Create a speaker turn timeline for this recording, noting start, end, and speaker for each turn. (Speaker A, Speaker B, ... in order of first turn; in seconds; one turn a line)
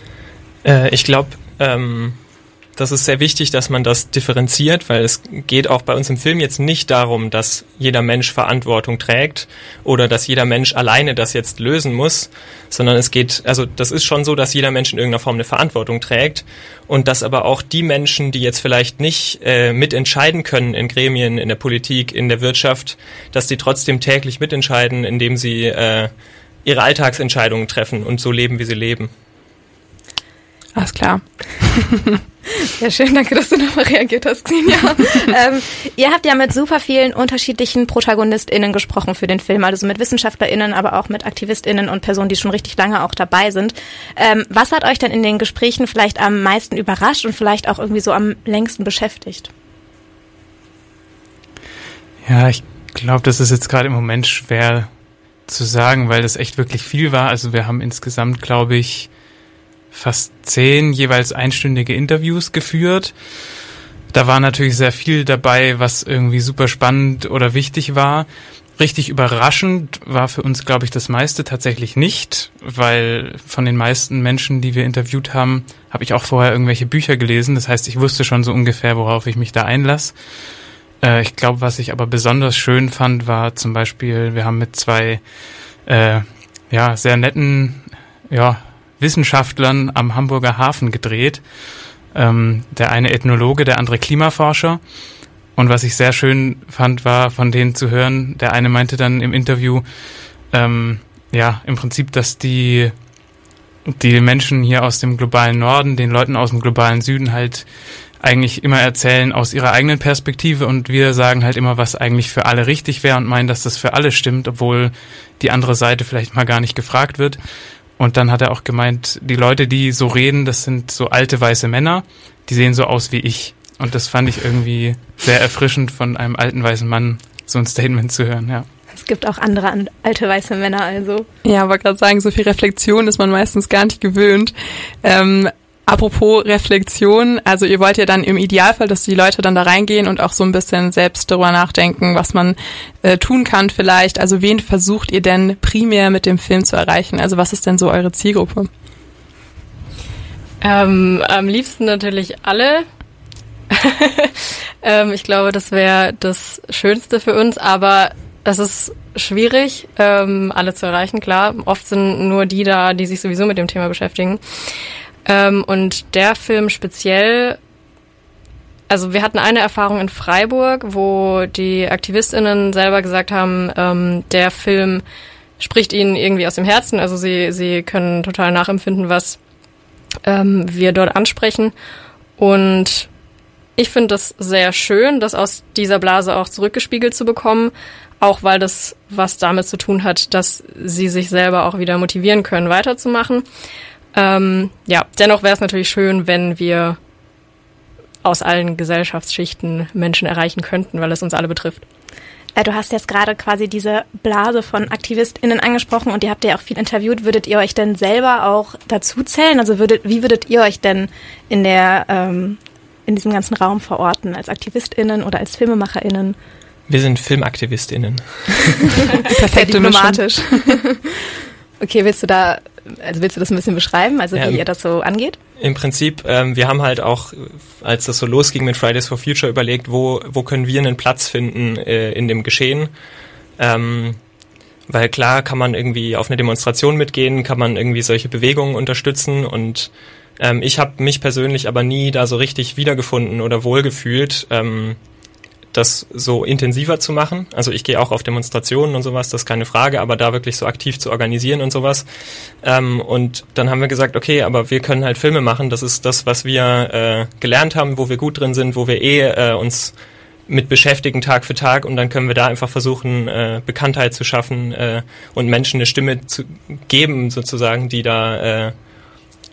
Speaker A: 0.7-2.2
Speaker A: 2.8-26.1
Speaker A: 26.6-29.1
Speaker B: 30.8-32.2
Speaker C: 32.8-49.5
Speaker D: 52.2-54.9
Speaker D: 55.5-59.1
Speaker D: 59.9-63.1
Speaker D: 64.1-68.3
Speaker D: 68.8-80.1
Speaker D: 81.0-85.2
Speaker D: 85.9-91.4
Speaker D: 92.1-94.8
Speaker D: 95.6-99.8
Speaker D: 100.5-102.9
Speaker D: 103.9-107.7
Speaker D: 108.2-117.4
Speaker D: 118.0-128.7
Speaker C: 128.9-131.3
Speaker B: 131.4-148.7
Speaker E: 150.6-152.8
Speaker E: 153.7-164.4
Speaker E: 165.3-167.6
Speaker E: 168.9-175.0
Speaker E: 175.6-179.4
Speaker E: 180.3-181.7
Speaker E: 182.4-183.1
Speaker E: 183.8-193.4
Speaker E: 194.2-197.0
Speaker E: 198.2-201.8
Speaker C: 202.6-216.4
Speaker A: 216.9-219.0
Speaker B: 219.3-220.8
Speaker C: 219.6-221.2
Speaker C: 221.8-225.4
Speaker A: 224.3-224.6
Speaker A: 225.6-232.9
Speaker A: 233.6-234.2
Speaker A: 234.9-245.0
Speaker A: 245.7-252.1
Speaker A: 252.6-259.9
Speaker A: 260.5-268.7